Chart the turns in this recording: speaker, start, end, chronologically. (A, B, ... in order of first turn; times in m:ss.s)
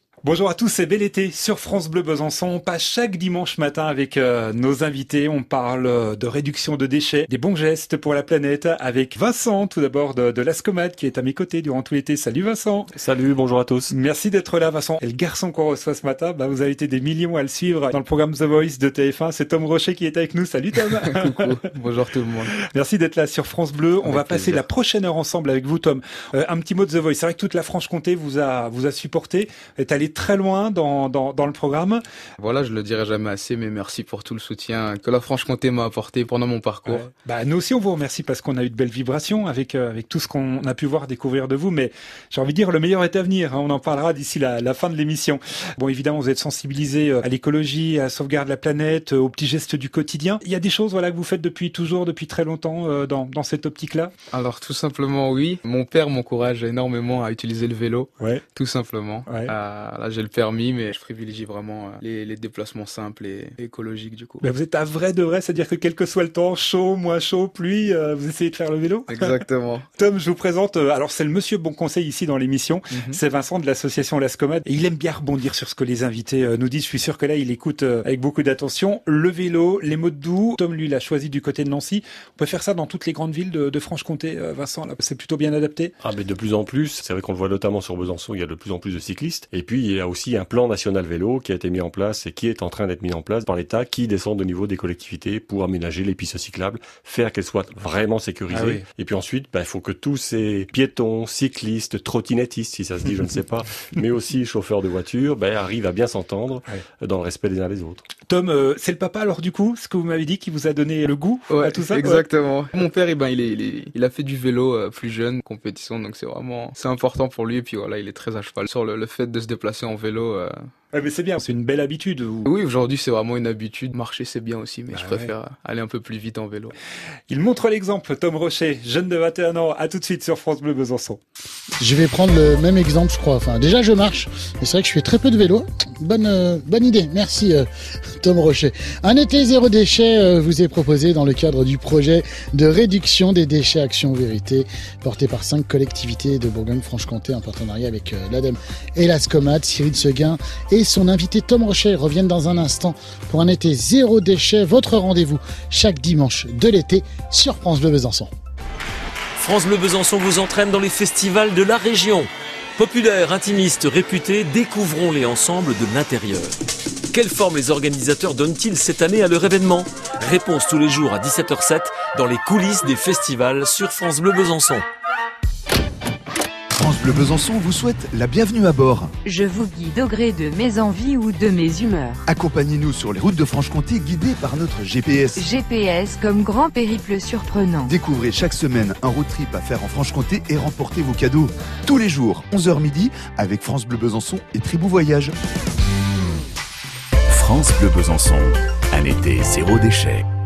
0:00.2-0:12.9 A
0:12.9-0:13.9 B
0:13.9-0:21.5 A
0:20.9-0:22.5 C
0:22.6-0:32.0 A
0:24.0-0:24.6 C
0:32.4-0:37.1 C
0:36.9-0:54.1 A
0:54.3-1:04.4 C
0:59.3-0:59.5 A
1:04.4-1:09.4 A
1:09.1-1:09.8 C
1:10.0-1:25.9 A
1:12.9-1:13.2 C
1:26.0-1:48.0 B
1:38.5-1:38.8 A
1:48.3-1:52.2 A
1:51.5-2:00.7 C
2:00.9-2:02.5 A
2:02.4-2:06.7 C
2:04.9-2:05.3 A
2:07.3-2:11.2 A
2:11.8-2:17.7 D
2:18.2-2:38.3 D
2:39.4-2:46.6 E
2:47.1-2:54.8 E
2:56.8-2:59.1 F
2:59.2-3:02.2 G
3:02.3-3:05.4 F
3:05.4-3:07.9 G
3:07.9-3:15.3 F
3:17.3-3:20.2 H